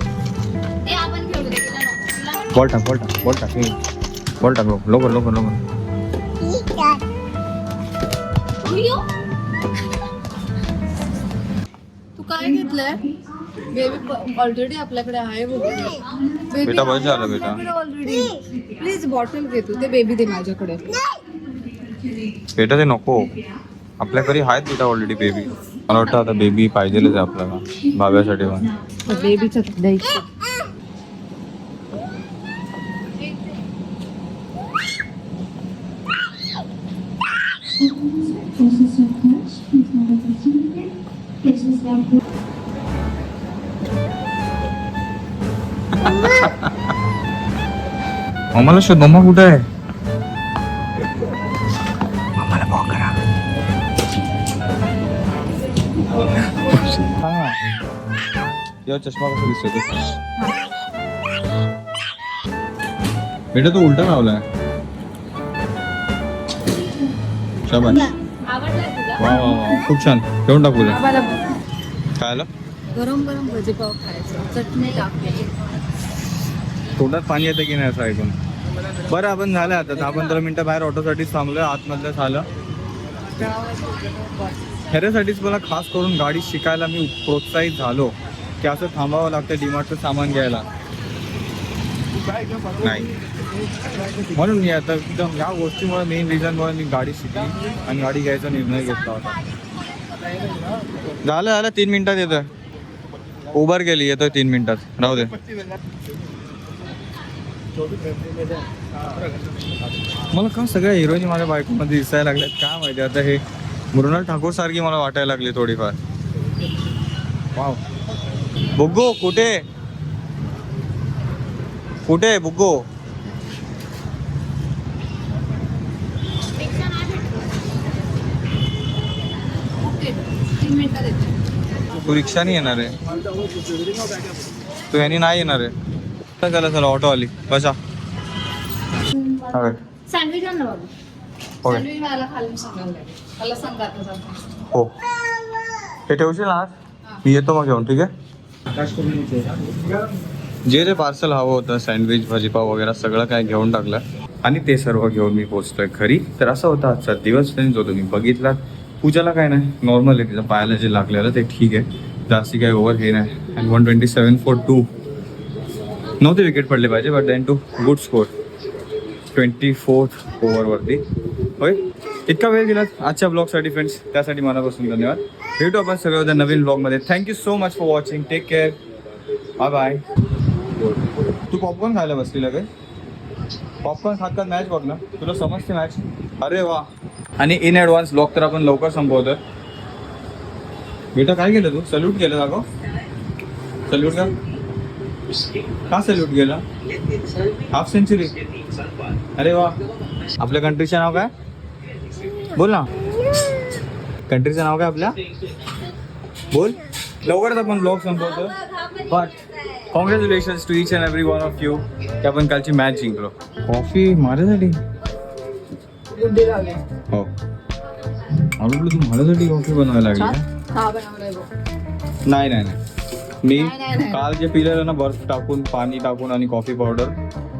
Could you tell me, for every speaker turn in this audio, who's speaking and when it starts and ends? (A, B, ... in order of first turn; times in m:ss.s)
0:00.8-0:02.5 A
0:02.5-0:03.8 B
0:04.4-0:05.6 B
0:08.6-0:09.1 A
0:12.2-0:13.1 C
0:13.7-0:21.0 C
0:16.6-0:17.6 B
0:22.5-0:23.3 B
0:24.0-0:28.7 B
0:29.1-0:30.3 C
0:37.9-0:40.8 C
0:41.4-0:42.1 C
0:46.0-0:46.7 B
0:48.6-0:49.6 B
0:52.4-0:53.2 B
0:56.1-0:57.6 B
0:58.9-1:00.0 B
1:03.5-1:04.4 B
1:07.7-1:08.1 B
1:08.4-1:09.2 A
1:09.2-1:11.0 B
1:10.9-1:11.5 C
1:12.2-1:12.5 B
1:12.9-1:15.5 C
1:17.0-1:18.4 B
1:19.1-1:22.5 B
1:24.9-1:30.7 B
1:32.7-1:33.1 B
1:34.2-1:39.4 B
1:41.2-1:42.5 B
1:43.5-1:45.4 B
1:50.3-1:53.4 B
1:53.9-1:56.0 B
1:57.6-1:57.8 B
1:58.8-1:59.6 B
2:02.0-2:02.8 B
2:09.8-2:11.2 C
2:12.0-2:12.9 B
2:14.9-2:15.7 B
2:16.4-2:17.8 B
2:19.5-2:19.8 B
2:20.1-2:20.9 A
2:21.6-2:24.5 C
2:26.1-2:28.1 B
2:28.7-2:29.9 B
2:30.7-2:44.9 B
2:46.2-2:48.3 B
2:49.3-2:51.0 B
2:51.6-2:58.8 B
2:59.6-3:00.0 B
3:01.5-3:02.7 B
3:03.8-3:06.9 B
3:07.4-3:09.4 B
3:11.1-3:12.6 B
3:13.9-3:14.4 B
3:15.9-3:16.6 B
3:17.7-3:18.4 B
3:19.4-3:19.8 B
3:20.4-3:21.3 B
3:22.5-3:22.9 B
3:24.3-3:25.2 B
3:26.5-3:34.8 B
3:36.2-3:36.8 C
3:38.6-3:40.4 B
3:40.1-3:41.5 C
3:42.2-3:42.8 B
3:43.4-3:47.2 B
3:43.6-3:44.2 C